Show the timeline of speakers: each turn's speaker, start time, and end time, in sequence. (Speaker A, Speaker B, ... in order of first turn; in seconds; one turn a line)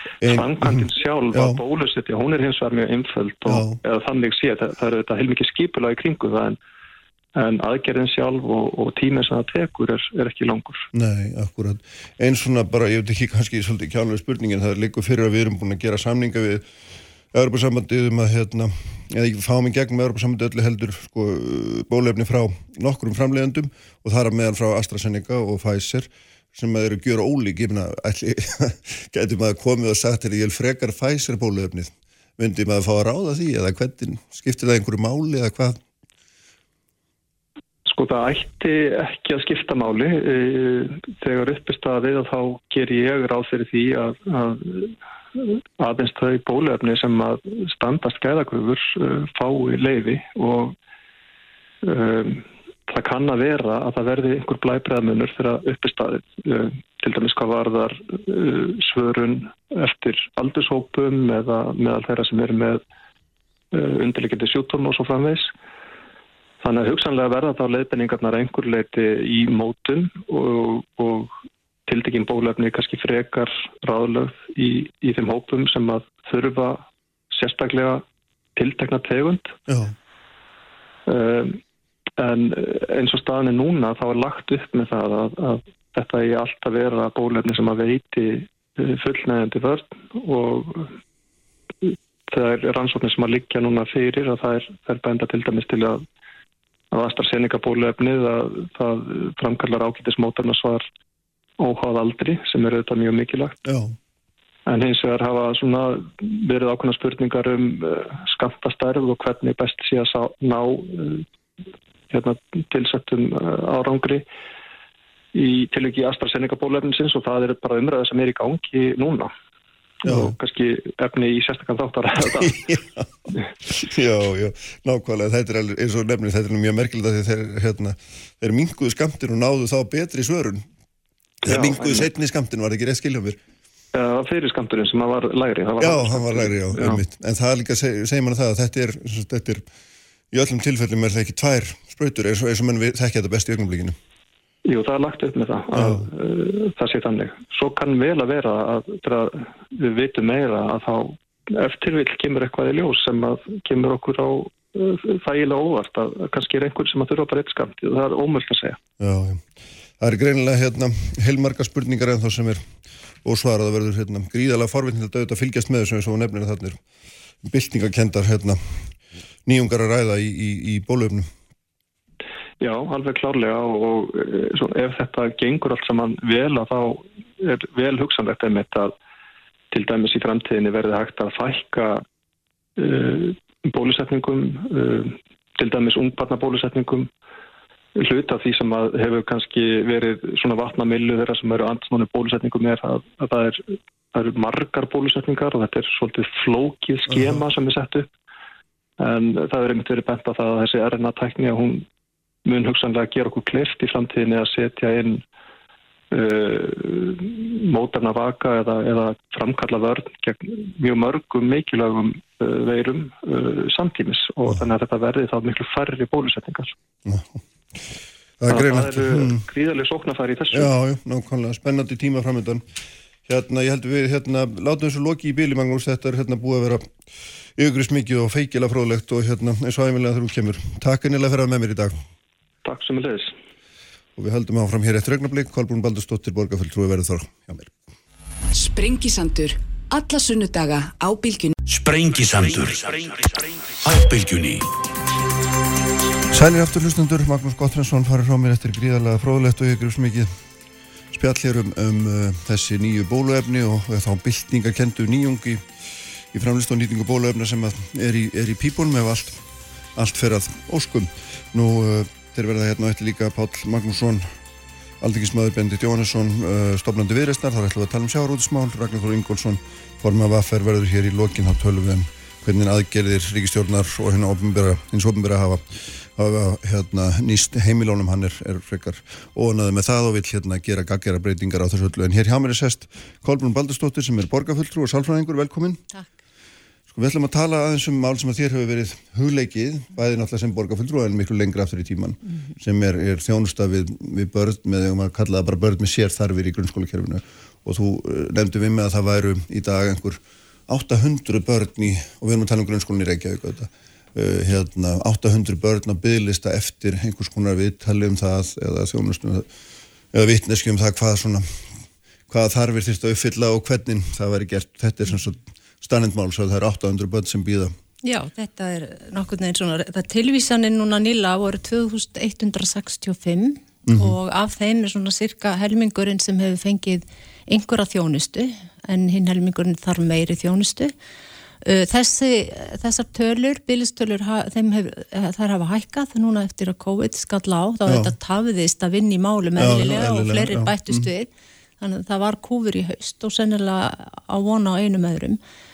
Speaker A: 0.2-1.6
Speaker B: 0.3-6.6
Speaker A: 3.5-3.8
Speaker B: 7.4-10.9
Speaker A: 10.9-16.7
Speaker A: 17.3-35.8
Speaker B: 37.9-50.8
Speaker B: 51.8-62.8
Speaker B: 63.7-65.5
Speaker B: 66.6-71.3
Speaker B: 71.9-78.0
Speaker B: 78.6-79.5
Speaker A: 79.7-80.0
Speaker B: 81.1-81.6
Speaker B: 82.2-90.9
Speaker B: 91.8-96.0
Speaker B: 96.9-100.8
Speaker B: 101.6-103.6
Speaker A: 103.7-104.0
Speaker B: 104.7-111.2
Speaker B: 112.1-114.2
Speaker B: 115.3-119.3
Speaker A: 120.0-120.3
Speaker B: 120.0-122.5
Speaker A: 122.3-130.7
Speaker A: 131.4-133.4
Speaker B: 131.5-132.1
Speaker B: 133.9-137.0
Speaker A: 135.8-139.7
Speaker A: 140.3-144.0
Speaker B: 144.7-158.8
Speaker A: 145.7-146.1
Speaker A: 159.0-159.4
Speaker A: 160.0-162.6
Speaker A: 163.2-166.8
Speaker A: 167.4-168.9
Speaker A: 169.5-171.3
Speaker B: 172.6-178.9
Speaker B: 179.7-182.0
Speaker B: 182.8-187.1
Speaker B: 187.9-198.1
Speaker A: 197.1-197.4
Speaker B: 199.0-201.9
Speaker B: 202.5-205.2
Speaker B: 206.1-216.7
Speaker A: 217.1-217.8
Speaker A: 218.4-219.4
Speaker B: 218.5-220.7
Speaker A: 220.5-222.6
Speaker A: 223.3-226.9
Speaker A: 227.6-232.0
Speaker B: 232.7-233.3
Speaker A: 234.2-237.8
Speaker C: 238.5-241.5
Speaker D: 241.7-244.7
Speaker A: 246.3-250.3
Speaker A: 251.1-255.7
Speaker A: 256.3-259.4
Speaker A: 260.0-264.3
Speaker A: 265.0-285.8
Speaker A: 286.9-309.5
Speaker A: 310.1-311.6
Speaker A: 312.3-317.8
Speaker E: 318.0-330.9
Speaker A: 323.9-324.1
Speaker E: 331.6-345.4
Speaker A: 337.9-338.1
Speaker A: 339.6-341.1